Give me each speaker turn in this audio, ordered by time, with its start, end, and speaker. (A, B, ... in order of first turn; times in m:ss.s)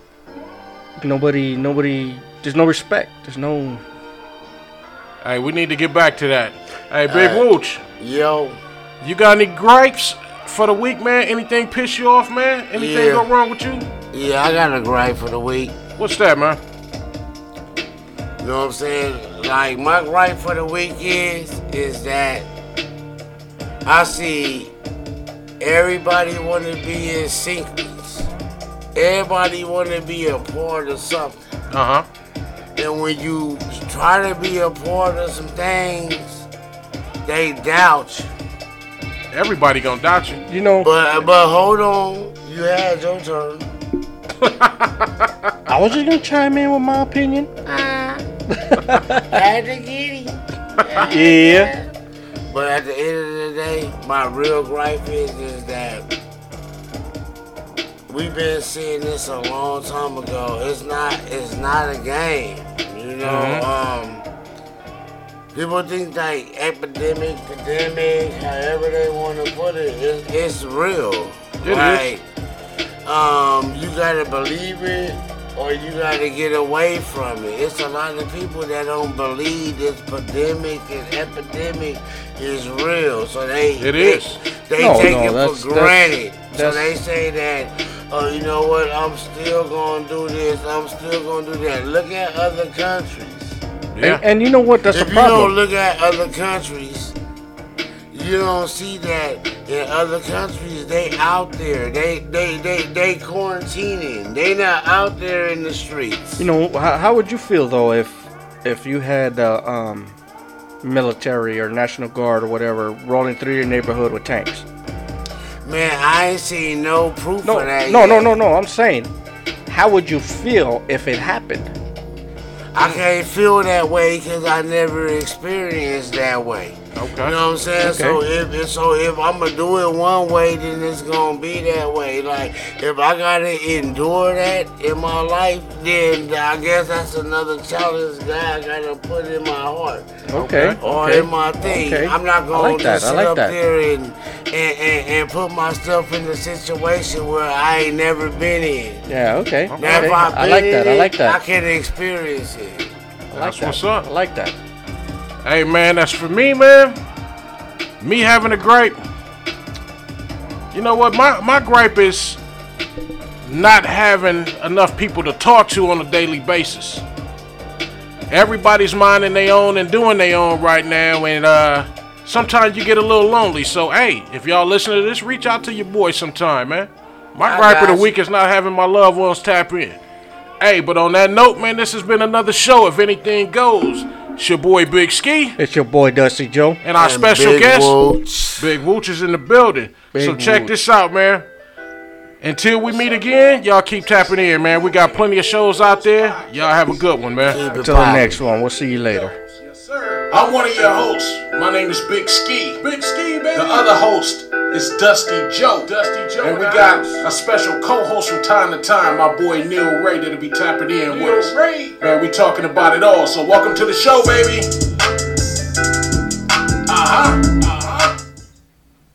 0:01.0-0:03.8 A
0:05.2-0:07.8 B
0:07.1-0:07.5 C
0:08.0-0:08.6 C
0:09.0-0:13.9 B
0:12.7-0:13.2 C
0:14.1-0:15.8 C
0:16.0-0:16.6 B
0:18.4-0:22.5 C
0:23.8-0:24.7 C
0:25.6-0:28.3 C
0:28.9-0:31.4 C
0:31.7-0:32.0 B
0:32.8-0:36.4 C
0:37.2-0:38.3 C
0:39.3-0:40.4 B
0:40.5-0:40.9 A
0:40.8-0:43.6 C
0:44.4-0:45.5 B
0:45.7-0:47.5 A
0:47.6-0:48.2 C
0:48.5-0:49.4 A
0:49.3-0:51.8 C
0:50.8-0:51.1 B
0:51.0-0:51.7 A
0:52.5-0:56.0 C
0:58.1-1:04.2 C
1:03.2-1:03.6 B
1:05.5-1:12.2 C
1:11.6-1:12.1 B
1:13.0-1:33.6 C
1:23.8-1:24.4 B
1:24.8-1:26.9 A
1:33.9-1:34.2 B
1:34.0-1:35.5 A
1:34.9-1:37.1 C
1:38.1-1:46.4 C
1:46.4-1:50.1 A
1:50.8-1:54.6 A
1:55.6-1:58.3 C
1:57.4-1:59.1 A
1:59.7-2:01.7 A
2:02.7-2:29.0 C
2:06.9-2:07.3 B
2:07.8-2:08.2 A
2:20.3-2:23.5 A
2:20.4-2:20.8 B
2:29.1-2:31.4 A
2:29.7-2:30.2 B
2:29.8-2:32.9 C
2:33.3-2:34.5 A
2:33.3-2:34.1 B
2:35.4-2:37.0 B
2:38.0-2:39.0 B
2:40.7-2:42.4 B
2:43.4-2:47.0 B
2:48.3-3:00.0 B
2:57.4-2:58.1 C
3:00.6-3:05.6 B
3:05.6-3:06.8 A
3:06.8-3:08.0 B
3:07.0-3:08.7 C
3:08.6-3:11.4 B
3:10.1-3:10.7 A
3:12.4-3:17.6 B
3:15.9-3:17.6 D
3:17.5-3:18.4 C
3:17.7-3:19.4 A
3:19.8-3:34.7 D
3:20.3-3:21.6 B
3:23.5-3:24.0 B
3:26.4-3:27.4 B
3:31.0-3:32.0 B
3:36.9-3:38.2 D